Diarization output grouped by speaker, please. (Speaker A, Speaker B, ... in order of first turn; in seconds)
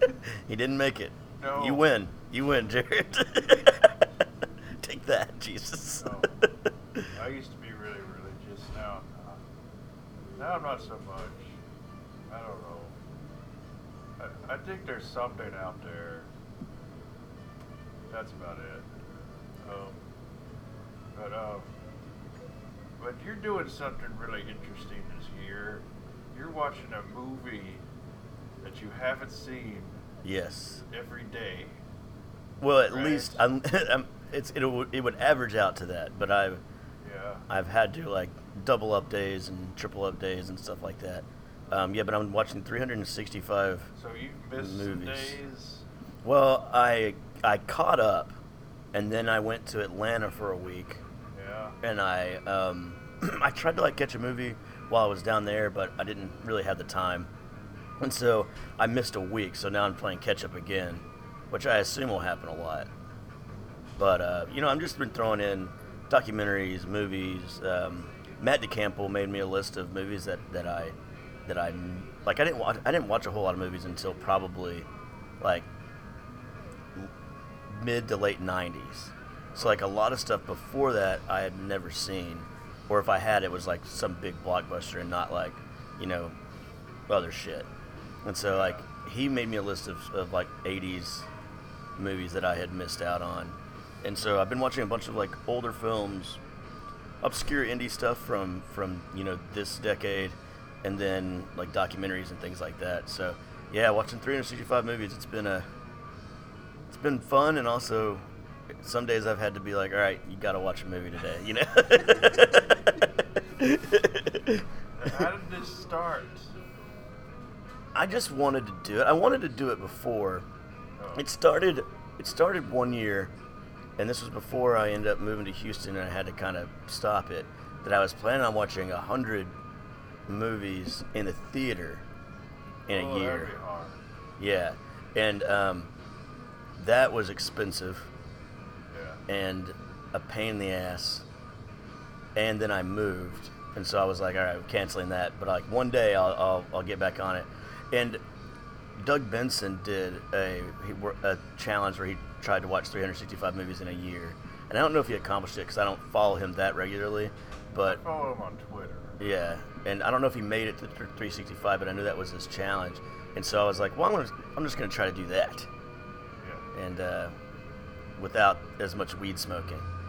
Speaker A: 0.2-4.0, 4.8-7.1, 30.2-30.8, 32.6-36.6, 37.5-43.9, 44.6-45.4, 46.2-48.4, 48.9-51.0, 51.8-57.3, 58.0-62.9, 64.0-74.9, 75.4-75.7, 77.7-86.4, 87.1-87.7, 88.2-91.3, 92.0-96.4, 97.2-105.7, 106.9-108.3, 108.8-115.2, 118.0-120.5, 121.1-123.3, 124.0-129.5, 130.3-132.1, 132.9-133.5, 134.4-135.9, 136.8-138.1, 139.3-141.2, 142.4-148.2, 149.0-158.0, 159.2-165.7, 166.7-167.4, 168.2-169.9
Speaker B: 1.4-1.9, 6.0-6.4, 7.1-9.4, 10.4-11.6, 12.3-13.0, 14.2-16.3, 18.1-18.9, 19.6-20.0, 21.1-21.7, 23.0-27.8, 28.6-30.0, 30.9-31.8, 32.9-33.5, 37.0-37.5, 44.0-45.9, 51.3-51.8, 79.5-79.8, 88.5-88.8, 114.9-116.5, 121.0-121.3, 132.9-134.0, 138.9-139.2, 157.8-159.2, 166.4-166.7